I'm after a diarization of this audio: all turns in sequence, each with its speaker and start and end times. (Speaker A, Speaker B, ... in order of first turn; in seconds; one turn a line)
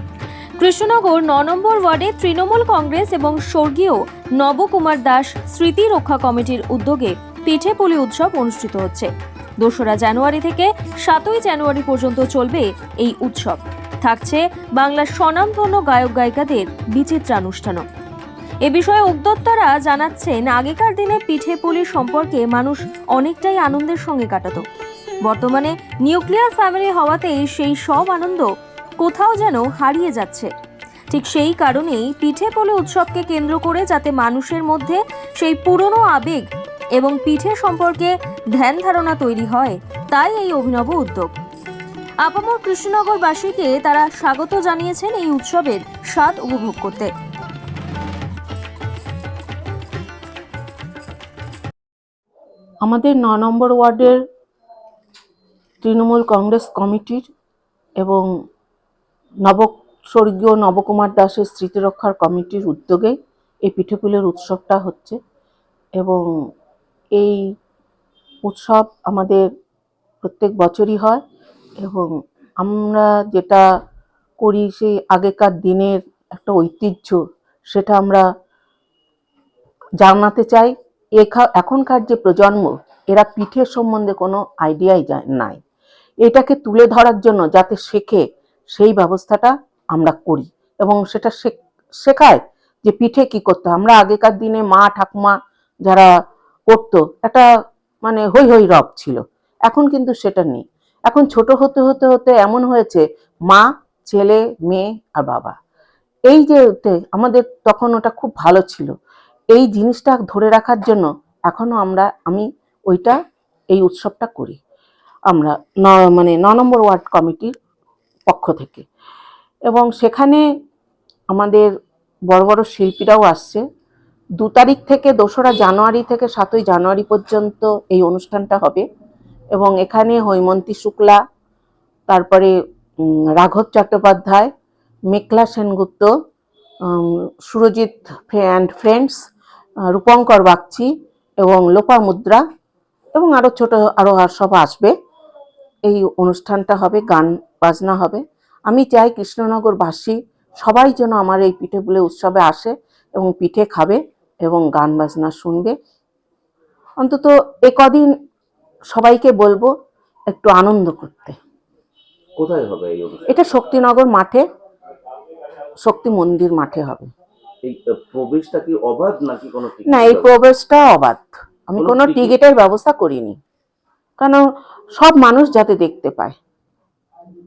Speaker A: 0.6-9.1
Speaker A: 9.6-17.8
Speaker A: 18.6-24.6
Speaker A: 25.2-28.5
Speaker A: 29.0-30.5
Speaker A: 31.1-41.3
Speaker A: 42.2-47.1
Speaker B: 52.8-54.2
Speaker B: 55.8-57.3
Speaker B: 59.5-65.2
Speaker B: 66.0-66.2
Speaker B: 67.2-67.4
Speaker B: 68.4-69.5
Speaker B: 70.2-71.2
Speaker B: 71.8-73.6
Speaker B: 74.4-77.2
Speaker B: 77.7-78.2
Speaker B: 80.0-85.6
Speaker B: 86.2-88.2
Speaker B: 88.7-95.3
Speaker B: 96.7-97.5
Speaker B: 98.0-105.5
Speaker B: 106.3-108.9
Speaker B: 109.5-113.2
Speaker B: 113.7-114.6
Speaker B: 115.3-117.5
Speaker B: 118.3-118.8
Speaker B: 119.7-120.4
Speaker B: 121.3-121.7
Speaker B: 122.3-123.6
Speaker B: 124.4-128.8
Speaker B: 129.5-131.2
Speaker B: 132.1-132.5
Speaker B: 133.4-134.5
Speaker B: 135.1-136.1
Speaker B: 136.9-139.2
Speaker B: 139.9-140.9
Speaker B: 141.4-142.4
Speaker B: 143.2-144.9
Speaker B: 145.9-155.7
Speaker B: 157.0-158.1
Speaker B: 158.9-159.7
Speaker B: 160.3-161.3
Speaker C: 162.4-163.3
Speaker B: 163.3-164.4
Speaker B: 165.8-167.1
Speaker C: 167.6-170.3
Speaker B: 169.9-173.4
Speaker C: 171.8-172.3
Speaker B: 175.0-176.3